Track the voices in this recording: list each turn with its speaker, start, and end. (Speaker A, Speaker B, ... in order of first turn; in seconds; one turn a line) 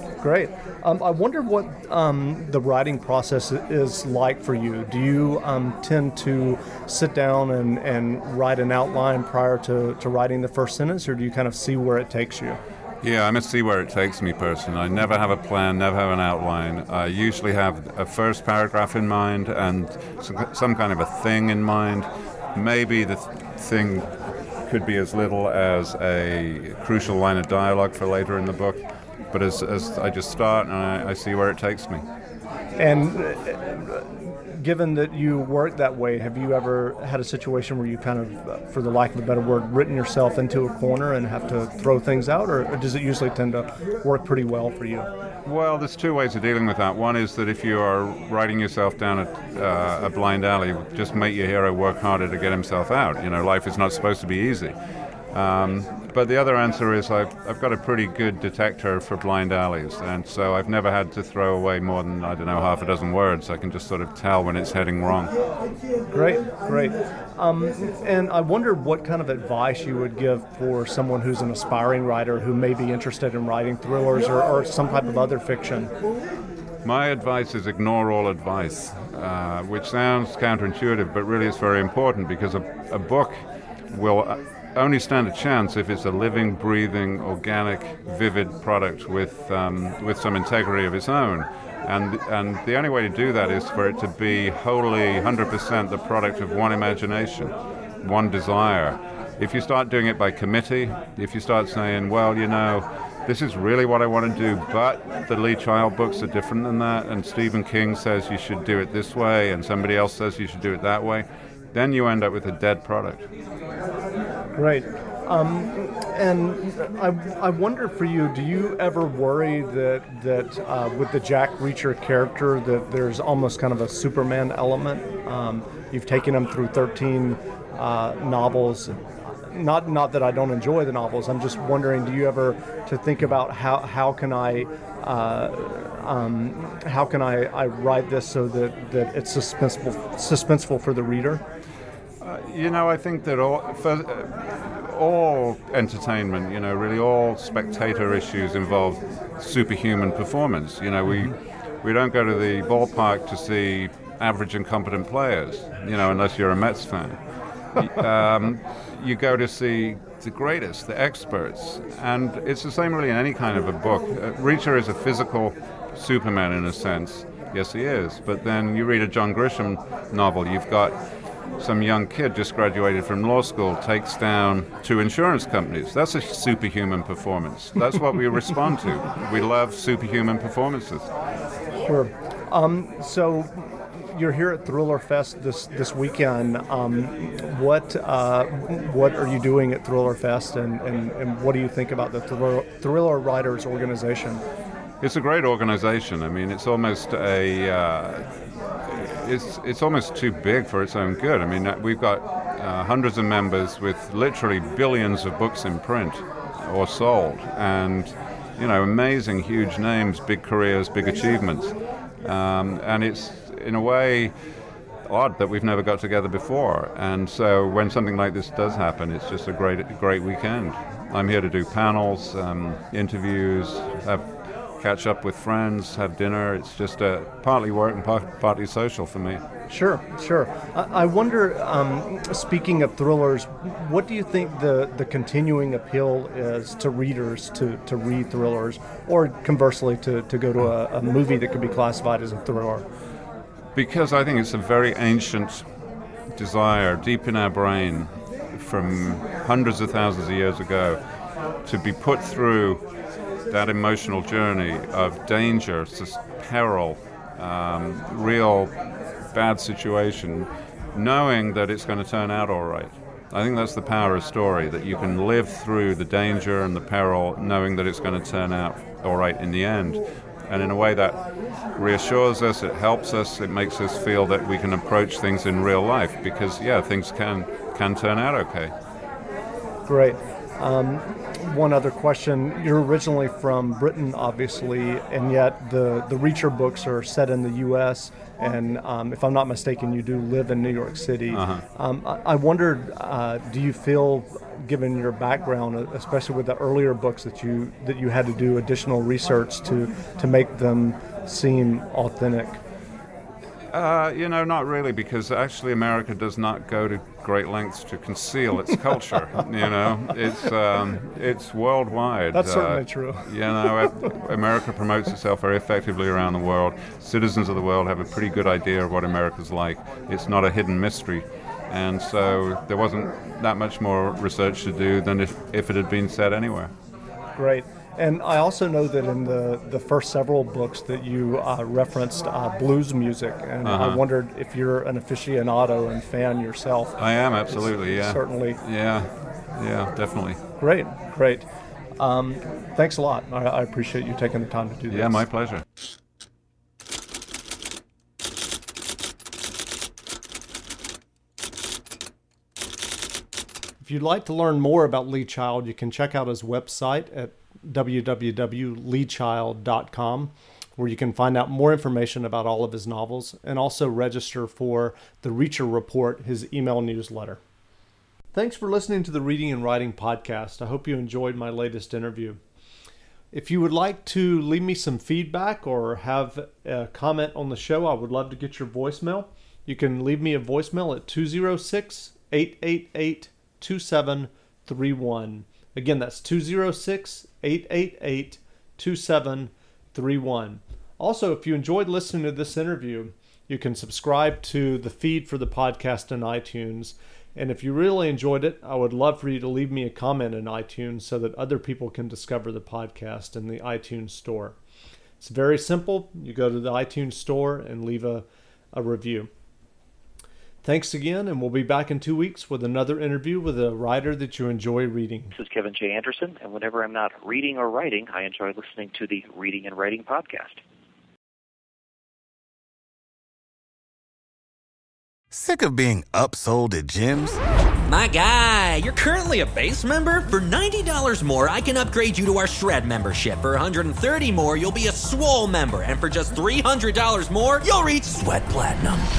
Speaker A: 0.2-12.6
Speaker B: 13.0-24.1
Speaker B: 24.7-32.0
Speaker A: 32.8-45.1
Speaker B: 45.4-54.7
Speaker B: 55.3-65.3
Speaker A: 66.1-75.9
Speaker B: 76.8-83.3
Speaker B: 83.9-113.2
Speaker A: 114.5-141.4
Speaker B: 142.2-157.2
Speaker B: 157.8-170.9
Speaker B: 171.6-181.1
Speaker A: 181.8-194.4
Speaker B: 195.0-198.3
Speaker B: 198.8-214.3
Speaker B: 215.1-224.3
Speaker B: 224.8-229.4
Speaker A: 229.7-242.8
Speaker B: 243.7-245.6
Speaker B: 246.3-251.0
Speaker B: 251.6-252.8
Speaker B: 253.5-258.7
Speaker B: 259.3-271.2
Speaker B: 271.8-278.7
Speaker A: 279.9-302.6
Speaker B: 291.3-291.6
Speaker B: 303.7-326.7
Speaker A: 312.3-313.9
Speaker A: 327.4-338.6
Speaker B: 333.6-334.0
Speaker B: 337.0-340.4
Speaker A: 340.6-345.2
Speaker B: 344.9-345.6
Speaker A: 353.8-367.4
Speaker A: 368.3-372.4
Speaker A: 373.3-404.6
Speaker A: 405.2-409.3
Speaker A: 410.6-415.3
Speaker C: 415.3-420.6
Speaker D: 425.3-427.4
Speaker E: 427.9-439.1